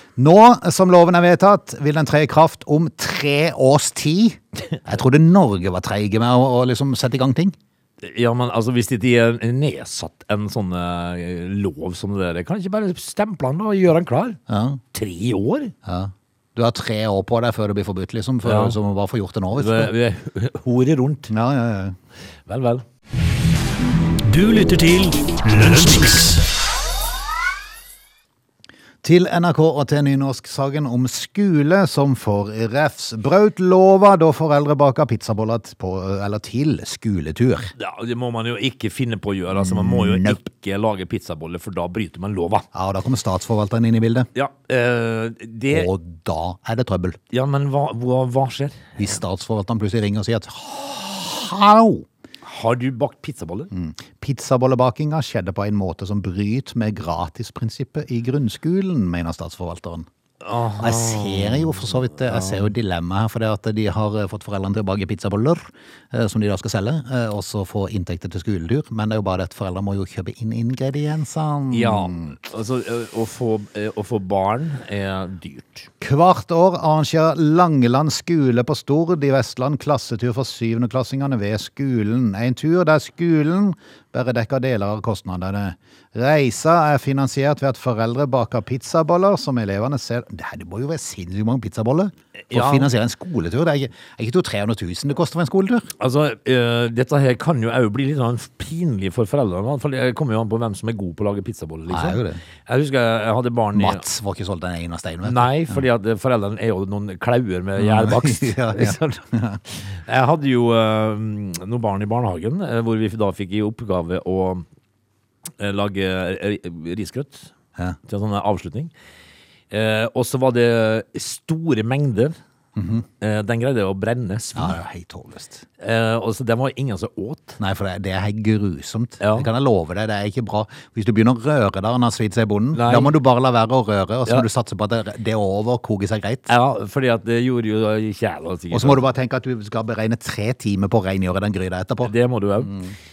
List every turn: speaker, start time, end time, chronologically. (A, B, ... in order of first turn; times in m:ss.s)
0:00.2-0:07.6 A
0:08.0-0:14.4 B
0:14.5-0:14.8 A
0:14.9-0:15.7 B
0:15.9-0:19.9 A
0:18.4-0:18.8 B
0:19.5-0:21.3 B
0:21.3-0:22.0 A
0:22.5-0:22.8 B
0:24.2-0:26.4 C
0:29.0-0:37.7 A
0:37.8-0:42.7 B
0:39.5-0:40.4 A
0:42.7-0:44.3 A
0:44.4-0:45.9 B
0:45.7-0:47.2 A
0:47.3-0:49.0 B
0:49.0-0:52.1 A
0:52.5-0:53.7 B
0:53.7-1:00.1 A
1:00.4-1:02.7 B
1:00.8-1:12.4 A
1:11.7-1:15.9 B
1:16.0-1:35.9 A
1:32.5-1:32.9 B
1:36.0-1:44.0 B
1:41.9-1:42.4 A
1:43.7-1:45.8 A
1:45.2-1:49.2 B
1:47.8-1:49.6 A
1:49.9-1:54.6 B
1:55.6-1:57.5 B
1:58.1-1:58.9 B
1:59.7-2:02.4 B
2:02.8-2:03.0 A
2:03.2-2:04.8 B
2:04.6-2:05.6 A
2:05.8-2:07.6 B
2:07.6-2:16.5 A
2:09.2-2:09.5 B
2:12.7-2:13.2 B
2:16.5-2:19.0 B
2:18.7-2:22.1 A
2:22.0-2:22.8 B
2:22.6-2:23.0 A